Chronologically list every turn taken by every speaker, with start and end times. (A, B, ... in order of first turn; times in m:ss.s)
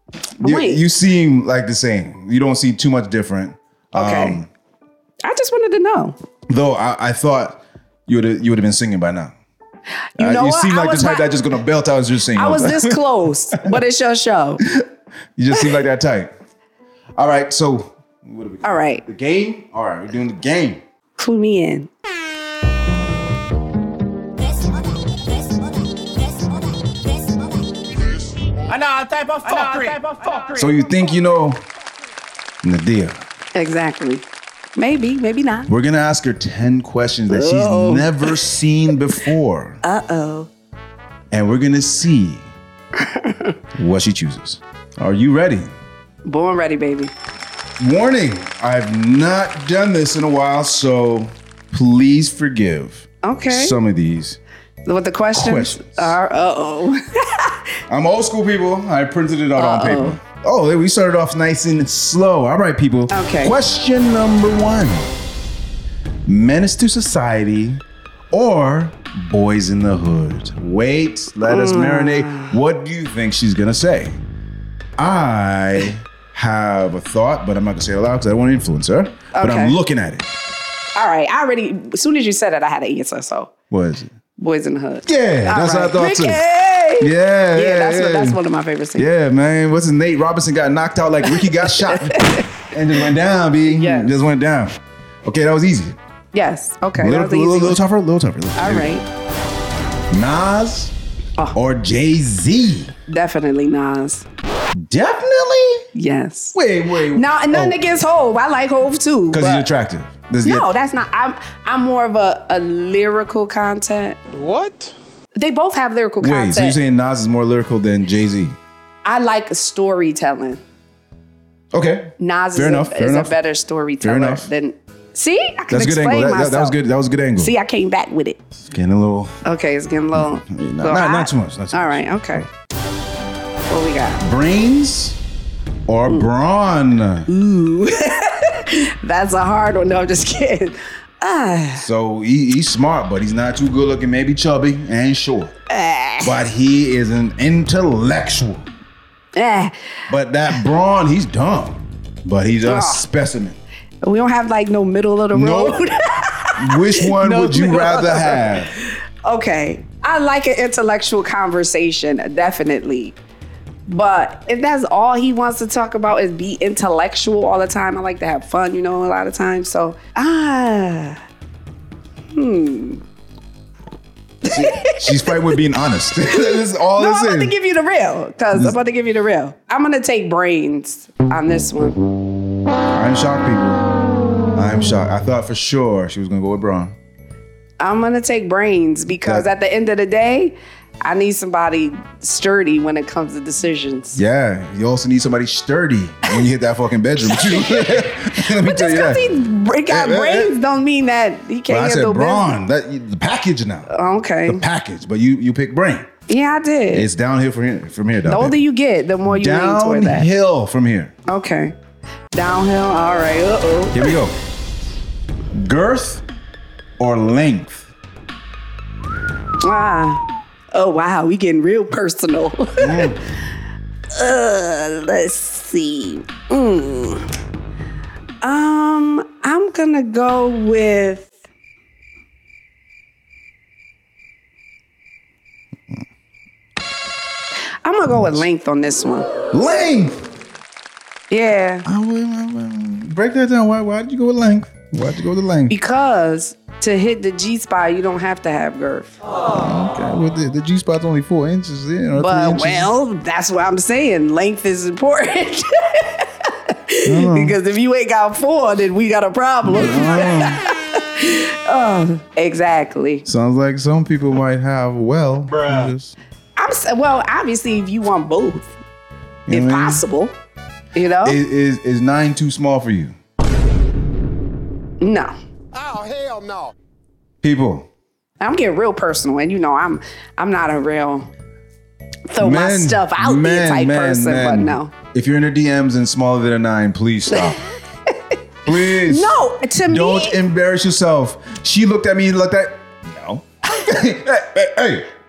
0:00.4-0:04.5 A
0:00.4-0:00.8 B
0:03.9-0:04.4 B
0:05.2-0:06.2 B
0:06.5-0:09.3 A
0:10.2-0:11.3 B
0:10.2-0:13.0 A
0:12.3-0:14.6 B
0:14.6-0:16.3 A
0:17.2-0:20.8 A
0:18.6-0:19.0 B
0:21.2-0:21.9 B
0:28.7-0:30.7 C
0:30.6-0:31.6 A
0:32.6-0:33.2 A
0:33.5-0:34.2 B
0:34.8-0:35.7 B
0:35.7-0:39.8 A
0:37.3-0:38.5 B
0:39.8-0:40.5 B
0:41.3-0:42.5 A
0:43.0-0:43.5 B
0:43.7-0:45.7 A
0:46.2-0:47.1 B
0:47.8-0:54.4 A
0:53.2-0:53.8 B
0:54.8-0:57.6 B
0:55.3-0:56.2 A
0:57.9-1:05.1 A
0:59.6-1:00.2 B
1:03.1-1:03.6 B
1:06.2-1:14.2 A
1:11.4-1:12.6 B
1:15.0-1:20.3 A
1:19.3-1:19.8 B
1:21.0-1:23.5 B
1:23.7-1:24.1 A
1:24.4-1:29.1 B
1:25.0-1:26.4 A
1:27.0-1:28.4 A
1:29.0-1:36.0 A
1:31.3-1:32.5 B
1:33.6-1:34.2 B
1:36.3-1:37.8 B
1:37.0-1:38.9 A
1:38.6-1:39.0 B
1:40.1-1:40.9 A
1:41.5-1:42.9 A
1:43.1-1:44.2 B
1:44.7-1:45.8 A
1:45.9-1:46.6 B
1:46.5-1:47.8 A
1:47.1-1:49.7 B
1:49.3-1:50.7 A
1:50.4-1:54.2 B
1:54.3-1:54.9 C
1:55.4-1:56.8 B
1:56.2-1:58.6 A
1:59.0-2:00.6 B
2:01.7-2:03.4 A
2:02.2-2:06.8 B
2:04.0-2:04.5 A
2:05.7-2:07.5 A
2:07.4-2:08.4 B
2:08.6-2:09.4 A
2:09.4-2:12.4 B
2:10.1-2:12.5 A
2:13.7-2:14.2 B
2:14.2-2:15.2 A
2:15.9-2:17.3 A
2:17.3-2:21.8 B
2:21.8-2:25.5 A
2:25.7-2:26.3 B
2:26.2-2:28.7 A
2:29.3-2:29.7 B
2:30.1-2:33.6 A
2:32.6-2:33.0 B
2:34.0-2:43.2 B
2:35.3-2:35.8 A
2:36.6-2:38.7 A
2:43.9-2:51.2 B
2:52.3-2:53.0 B
2:54.4-2:55.6 B
2:54.4-2:57.5 A
2:56.3-3:02.0 B
3:02.9-3:03.8 A
3:04.5-3:07.0 A
3:07.8-3:14.2 B
3:09.2-3:09.5 A
3:14.1-3:19.3 A
3:17.2-3:22.5 B
3:19.9-3:20.5 A
3:21.7-3:23.9 A
3:23.9-3:24.6 B
3:24.4-3:26.1 A
3:26.3-3:27.1 B
3:26.9-3:28.6 A
3:28.3-3:30.3 B
3:29.3-3:31.1 A
3:31.3-3:31.7 B
3:32.3-3:34.1 B
3:33.9-3:34.3 A
3:35.5-3:36.2 A
3:37.0-3:37.9 A
3:39.6-3:43.2 B
3:42.8-3:43.2 A
3:44.1-3:47.2 B
3:48.4-3:51.3 B
3:57.8-3:59.3 B
3:58.1-3:58.4 A
3:59.5-4:00.2 A
4:01.3-4:01.8 B
4:01.8-4:05.7 A
4:05.7-4:09.2 B
4:09.5-4:12.9 A
4:12.2-4:23.2 B
4:17.0-4:17.6 A
4:19.6-4:20.6 A
4:23.2-4:26.2 A
4:26.6-4:28.7 B
4:29.5-4:30.0 A
4:29.5-4:30.3 B
4:30.9-4:31.4 B
4:31.2-4:33.1 A
4:35.0-4:35.3 B
4:36.0-4:36.5 C
4:37.4-4:37.9 A
4:38.4-4:41.3 B
4:42.3-4:44.9 B
4:42.4-4:47.6 A
4:47.3-4:48.4 B
4:48.6-4:49.4 A
4:48.9-4:50.4 B
4:49.9-4:55.1 A